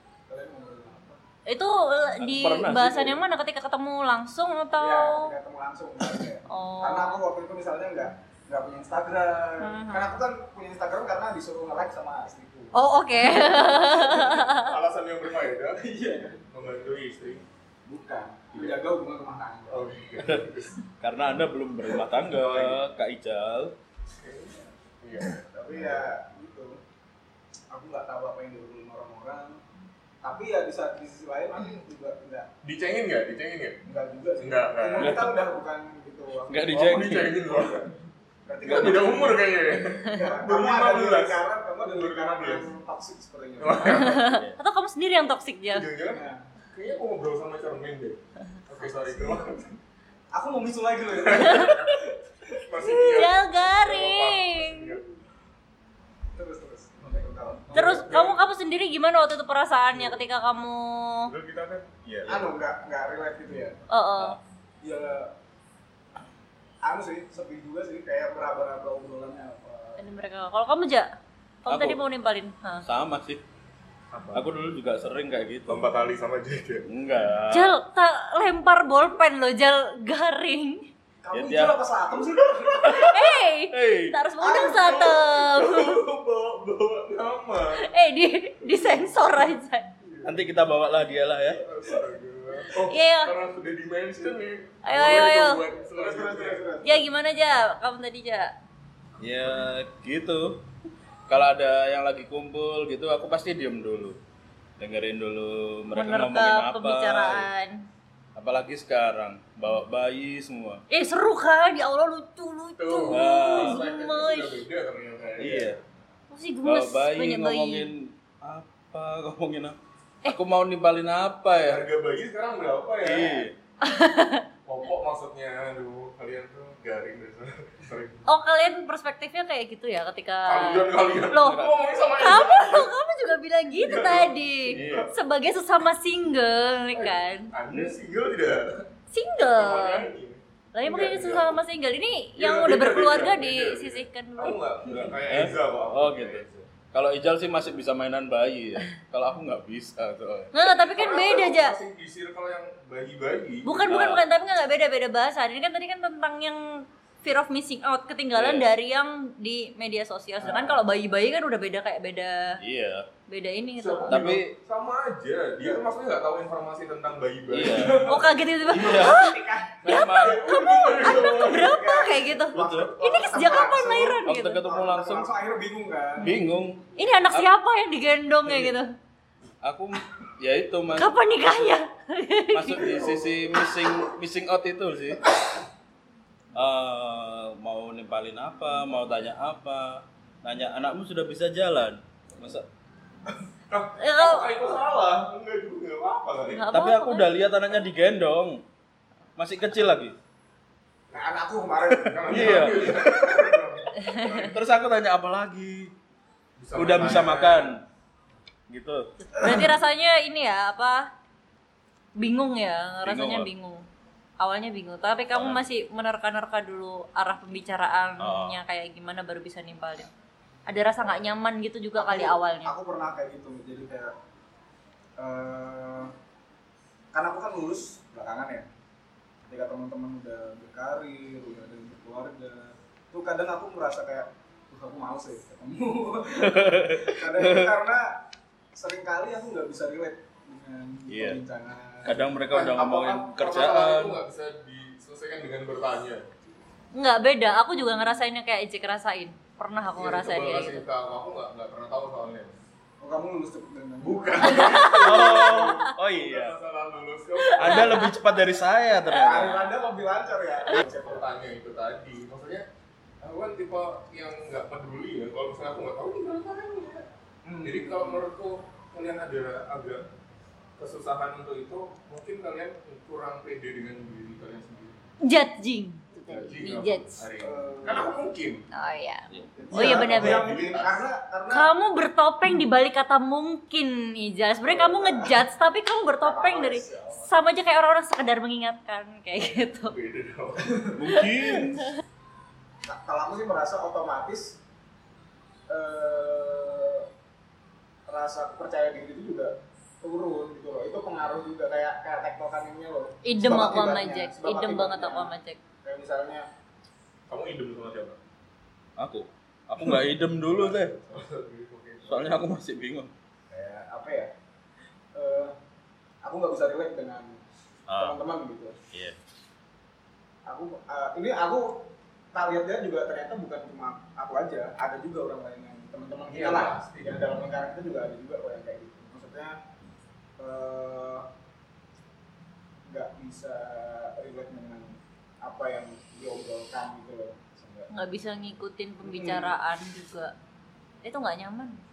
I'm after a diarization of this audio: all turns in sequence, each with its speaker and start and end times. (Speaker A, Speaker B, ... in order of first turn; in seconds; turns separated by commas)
Speaker A: 0.3-1.2, Speaker B: 1.5-5.3, Speaker C: 2.2-3.2, Speaker A: 4.8-14.5, Speaker B: 6.5-7.2, Speaker B: 9.6-10.2, Speaker B: 12.7-14.7, Speaker D: 14.5-15.9, Speaker A: 15.8-16.4, Speaker D: 16.4-17.5, Speaker A: 17.9-20.1, Speaker D: 18.6-18.8, Speaker D: 19.7-20.8, Speaker C: 21.0-23.7, Speaker D: 22.1-22.8, Speaker D: 24.2-26.1, Speaker A: 25.5-26.8, Speaker A: 27.7-29.6, Speaker A: 30.2-32.5, Speaker D: 32.6-33.8, Speaker A: 33.9-36.9, Speaker D: 34.4-35.2, Speaker C: 35.0-35.4, Speaker C: 36.5-37.7, Speaker D: 36.6-38.0, Speaker A: 38.5-39.5, Speaker D: 38.6-42.7, Speaker A: 40.0-44.1, Speaker D: 43.6-44.4, Speaker B: 43.8-45.9, Speaker C: 44.3-44.6, Speaker D: 45.7-49.8, Speaker A: 46.1-46.5, Speaker A: 48.7-49.5, Speaker A: 50.3-52.6, Speaker D: 51.1-55.1, Speaker B: 52.8-55.0, Speaker A: 56.3-58.1, Speaker D: 57.0-58.4, Speaker B: 57.7-61.3, Speaker D: 59.9-60.2, Speaker D: 61.3-62.5, Speaker A: 62.3-63.8, Speaker B: 63.9-64.4, Speaker A: 64.8-65.3, Speaker A: 66.8-70.0, Speaker B: 70.0-71.1, Speaker B: 71.6-72.8, Speaker C: 71.7-72.0, Speaker C: 72.8-73.4, Speaker D: 74.1-74.5, Speaker C: 74.3-75.9, Speaker D: 75.7-77.3, Speaker C: 76.9-77.8, Speaker B: 77.5-80.9, Speaker A: 81.2-83.1, Speaker C: 81.3-81.8, Speaker D: 82.7-83.0, Speaker C: 82.8-84.2, Speaker B: 83.1-86.0, Speaker A: 84.4-85.4, Speaker D: 85.1-87.9, Speaker B: 87.8-89.9, Speaker D: 88.7-89.2, Speaker D: 90.0-90.4, Speaker C: 90.2-91.6, Speaker D: 91.5-96.7, Speaker B: 92.8-93.3, Speaker B: 94.9-95.6, Speaker A: 95.8-97.1, Speaker B: 96.8-98.5, Speaker C: 99.2-100.6, Speaker C: 101.3-104.2, Speaker C: 104.8-107.5, Speaker B: 105.9-107.8, Speaker C: 108.4-110.8, Speaker B: 110.9-114.7, Speaker D: 112.8-115.8, Speaker C: 113.1-113.8, Speaker C: 115.4-115.8, Speaker B: 116.3-117.9, Speaker C: 116.6-121.8, Speaker D: 121.7-123.5, Speaker C: 123.0-123.5, Speaker B: 123.8-124.4, Speaker D: 124.7-128.2, Speaker B: 128.3-137.5, Speaker D: 130.5-132.9, Speaker D: 133.7-135.1, Speaker C: 134.7-135.1, Speaker D: 136.9-138.8, Speaker B: 139.1-140.1, Speaker D: 139.6-141.6, Speaker B: 140.7-145.1, Speaker D: 142.4-146.7, Speaker C: 144.9-150.5, Speaker B: 150.5-151.8, Speaker D: 150.6-153.8, Speaker B: 153.6-162.6, Speaker C: 153.8-154.3, Speaker C: 158.3-158.7, Speaker D: 160.4-160.8, Speaker C: 162.6-163.1, Speaker B: 163.3-164.2, Speaker D: 163.8-169.1, Speaker C: 164.1-164.5, Speaker A: 165.6-165.9, Speaker C: 167.5-168.1, Speaker B: 167.8-174.6, Speaker C: 168.7-169.2, Speaker A: 168.8-176.3, Speaker C: 169.8-170.4, Speaker D: 169.9-171.8, Speaker C: 172.5-172.9, Speaker C: 174.2-175.3, Speaker C: 176.2-177.5, Speaker B: 177.0-178.9, Speaker C: 178.5-178.8, Speaker C: 179.6-181.8, Speaker B: 181.0-183.0, Speaker C: 182.5-185.2, Speaker A: 183.1-183.7, Speaker C: 186.5-192.7, Speaker D: 193.7-196.7, Speaker B: 194.0-194.5, Speaker B: 196.5-197.3, Speaker C: 196.7-198.6, Speaker C: 199.4-200.2, Speaker A: 201.1-203.2, Speaker D: 202.0-204.6, Speaker C: 202.2-203.4, Speaker B: 204.0-204.5, Speaker C: 204.3-205.9, Speaker D: 206.6-207.7, Speaker C: 206.8-207.8, Speaker C: 208.7-209.6, Speaker B: 209.3-211.1, Speaker B: 212.2-213.8, Speaker C: 213.1-213.5, Speaker B: 214.4-220.1, Speaker C: 215.3-215.6, Speaker C: 218.2-218.6, Speaker B: 220.7-222.7, Speaker A: 222.0-224.1, Speaker A: 225.2-226.1, Speaker A: 227.1-228.7, Speaker A: 229.5-238.2, Speaker C: 236.4-237.7, Speaker A: 238.8-242.2, Speaker C: 241.1-241.4, Speaker C: 242.0-244.2, Speaker D: 242.5-246.3, Speaker B: 246.9-250.8, Speaker D: 249.9-252.6, Speaker A: 253.0-254.9, Speaker D: 254.0-258.1, Speaker B: 254.5-255.8, Speaker C: 255.0-256.6, Speaker B: 257.4-258.1, Speaker C: 257.6-259.7, Speaker A: 259.1-261.3, Speaker D: 260.7-262.6, Speaker D: 263.2-267.1, Speaker A: 267.4-268.2, Speaker D: 267.6-270.1, Speaker D: 270.8-275.0, Speaker B: 275.2-277.2, Speaker D: 276.3-278.6, Speaker A: 277.4-278.2, Speaker B: 278.7-280.5, Speaker A: 279.6-281.7, Speaker D: 279.7-281.0, Speaker B: 281.5-289.9, Speaker A: 284.6-285.4, Speaker A: 286.2-287.3, Speaker D: 289.9-291.0, Speaker C: 290.9-291.9, Speaker B: 291.1-291.9, Speaker A: 292.9-294.6, Speaker A: 295.7-297.1, Speaker A: 298.1-305.3, Speaker B: 303.2-305.6, Speaker A: 305.8-306.4, Speaker D: 307.3-308.2, Speaker C: 309.0-310.9, Speaker D: 310.2-312.4, Speaker C: 312.0-313.1, Speaker A: 313.5-314.3, Speaker A: 315.1-315.6, Speaker A: 316.2-317.4, Speaker C: 317.9-318.1, Speaker A: 318.0-318.8, Speaker C: 318.9-319.2, Speaker A: 320.5-329.6, Speaker D: 326.3-327.4, Speaker A: 330.4-331.3, Speaker A: 332.9-337.9, Speaker B: 337.9-340.3, Speaker A: 339.0-339.6, Speaker B: 341.0-341.8